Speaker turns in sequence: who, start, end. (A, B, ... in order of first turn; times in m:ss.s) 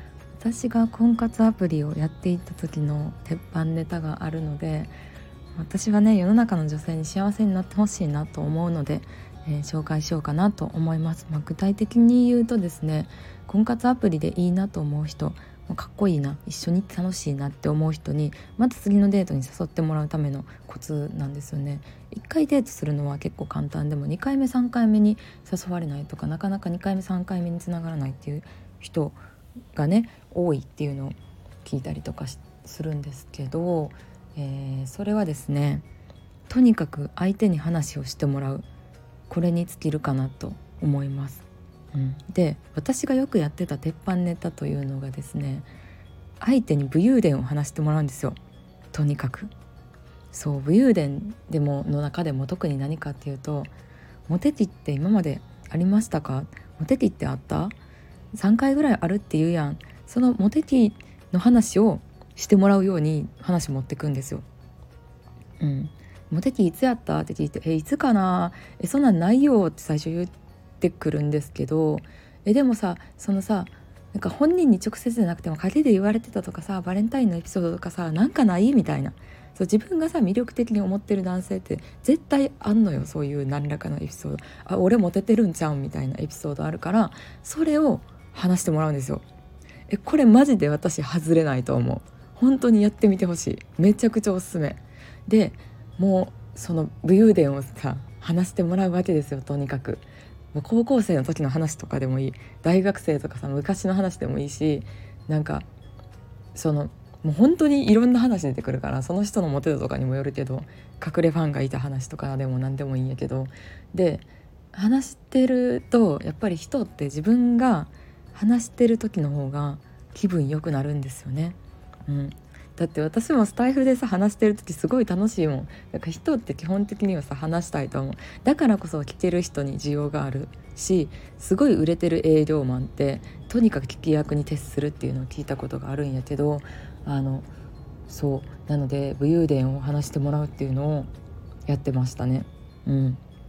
0:00.4-0:04.9 A
0:05.6-0:29.2 A
0:29.8-0:35.9 A
0:36.5-0:38.7 A
0:39.3-0:45.7 A
0:46.4-0:48.4 A
0:48.9-0:49.5 A
0:50.3-0:53.7 A
0:54.3-0:57.8 A
0:58.3-1:04.4 A
1:05.6-1:29.2 A
1:29.9-1:45.7 A
1:46.6-2:17.5 A
2:18.1-2:21.1 A
2:21.7-2:23.2 A